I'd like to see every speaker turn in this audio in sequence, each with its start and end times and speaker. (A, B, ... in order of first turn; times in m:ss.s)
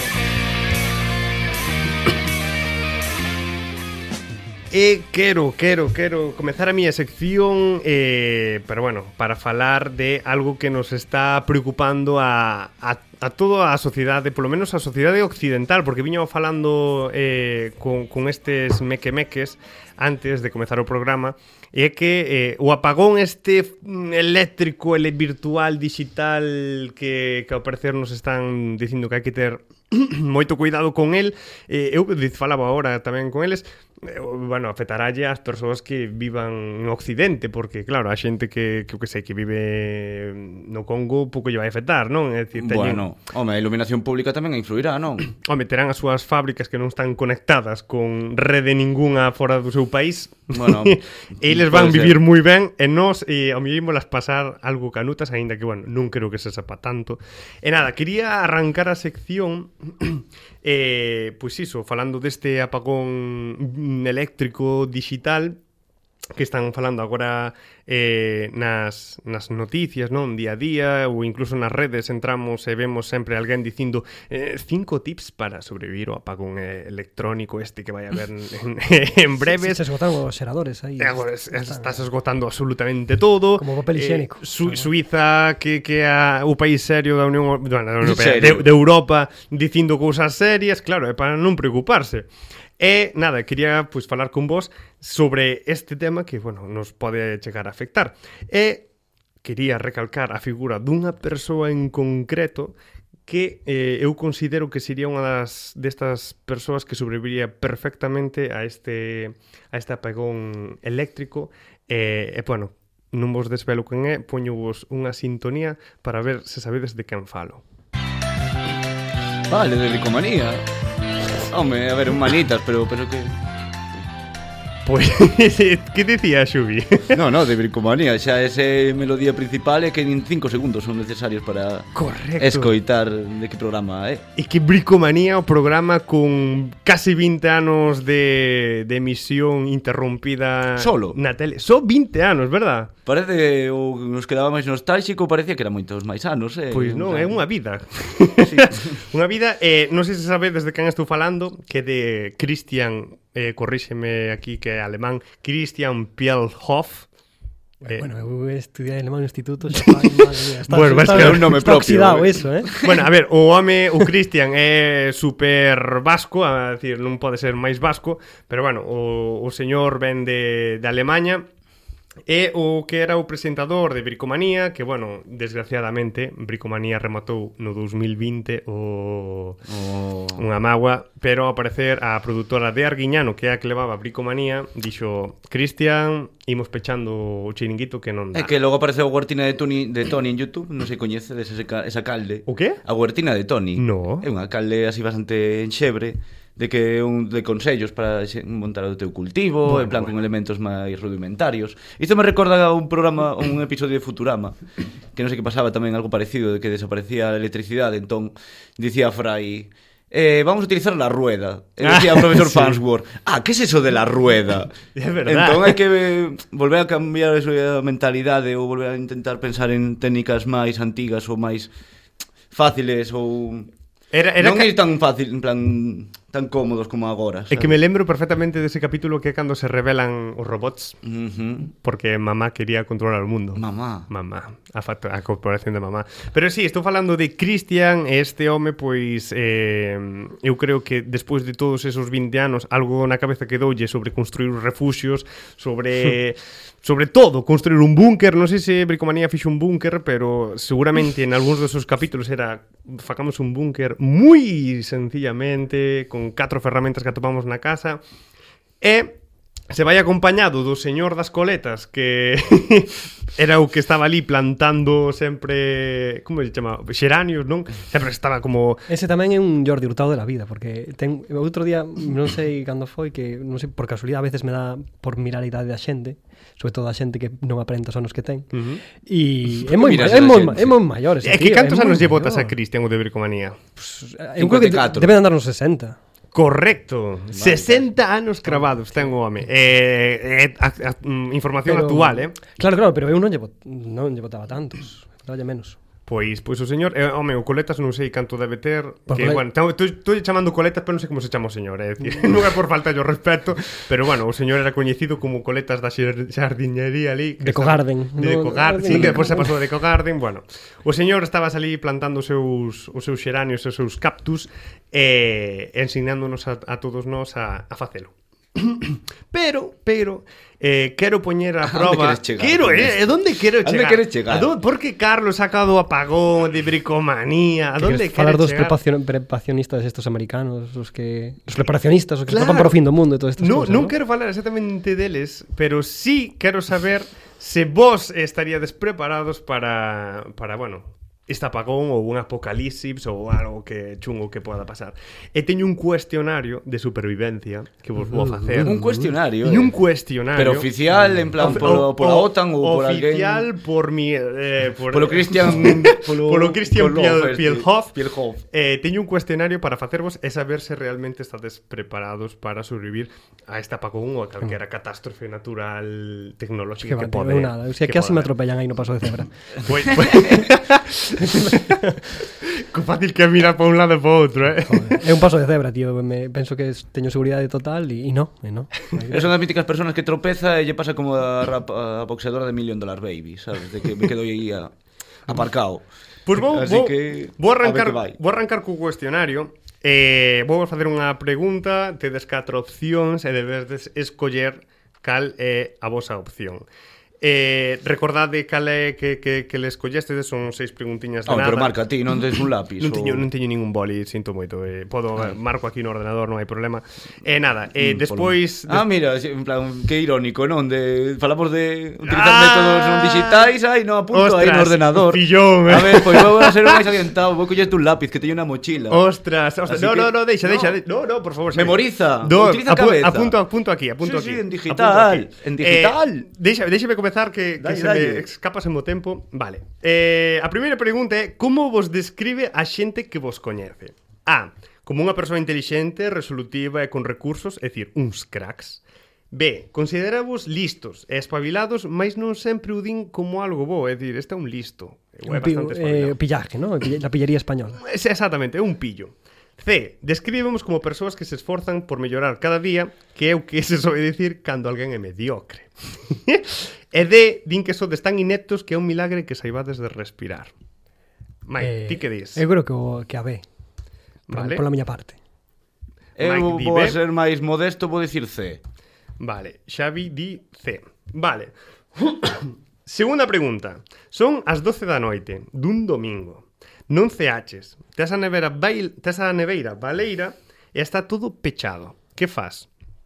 0:04.7-0:43.1 A
0:42.6-0:45.3 B
0:45.4-1:05.6 A
0:50.5-0:52.2 B
1:06.4-1:19.8 A
1:19.4-1:22.0 C
1:21.0-1:32.3 A
1:23.6-1:24.9 C
1:28.0-1:28.7 B
1:32.8-1:38.9 A
1:39.4-1:42.8 A
1:43.3-1:57.6 A
1:59.5-2:00.6 B
2:01.5-2:03.4 B
2:04.9-2:07.2 A
2:07.1-2:14.2 B
2:12.0-2:12.7 A
2:14.4-2:22.9 A
2:20.8-2:21.2 B
2:23.1-2:27.4 B
2:26.7-2:37.1 A
2:28.4-2:29.0 B
2:37.8-2:42.7 C
2:40.7-2:41.6 A
2:41.0-2:43.0 B
2:42.8-2:51.5 A
2:52.3-2:59.6 A
2:59.7-3:00.4 B
3:00.4-3:08.5 A
3:08.3-3:24.6 B
3:12.5-3:12.8 A
3:13.8-3:14.3 A
3:19.7-3:20.1 A
3:25.1-3:41.7 B
3:31.8-3:32.8 A
3:35.0-3:35.8 A
3:42.5-3:43.7 B
3:44.1-3:44.8 A
3:44.4-3:47.8 B
3:47.5-3:51.0 A
3:51.0-3:51.7 B
3:51.7-4:18.0 A
3:53.6-3:54.1 B
4:18.8-4:19.2 A
4:19.7-4:28.9 A
4:28.9-4:38.5 C
4:38.5-4:38.8 A
4:39.0-4:42.6 C
4:39.7-4:40.8 B
4:41.2-4:43.6 A
4:43.8-4:46.0 C
4:44.4-4:45.2 B
4:46.3-4:52.4 A
4:47.3-4:47.9 B
4:48.5-4:49.1 C
4:51.6-4:55.8 C
4:56.1-5:28.8 A
4:59.1-4:59.4 C
5:07.4-5:09.5 C
5:21.6-5:24.5 B
5:27.8-5:33.9 C
5:32.3-5:32.8 A
5:33.4-5:50.7 A
5:48.0-5:48.7 C
5:48.6-5:49.8 B
5:50.4-5:53.5 B
5:51.3-5:58.0 A
5:54.9-5:58.4 B
5:58.5-6:08.3 A
6:06.8-6:09.3 C
6:09.7-6:11.8 A
6:11.2-6:11.9 C
6:12.4-6:15.0 A
6:14.7-6:19.3 C
6:19.1-6:24.7 B
6:25.3-6:28.2 B
6:26.3-6:36.6 A
6:37.2-6:41.8 A
6:41.3-6:43.3 B
6:42.8-6:48.8 A
6:47.8-6:59.0 B
6:52.1-6:53.5 A
6:54.1-6:56.9 A
6:58.9-7:18.8 A
6:59.7-7:00.8 B
7:01.5-7:03.4 B
7:04.0-7:06.3 B
7:07.6-7:08.3 B
7:19.3-7:26.2 A
7:25.3-7:27.8 C
7:27.8-7:40.5 A
7:41.5-7:42.4 A
7:41.6-7:43.4 C
7:44.3-7:44.6 A
7:44.3-7:45.2 C
7:46.2-7:48.6 B
7:46.2-7:47.0 A
7:49.2-8:02.7 A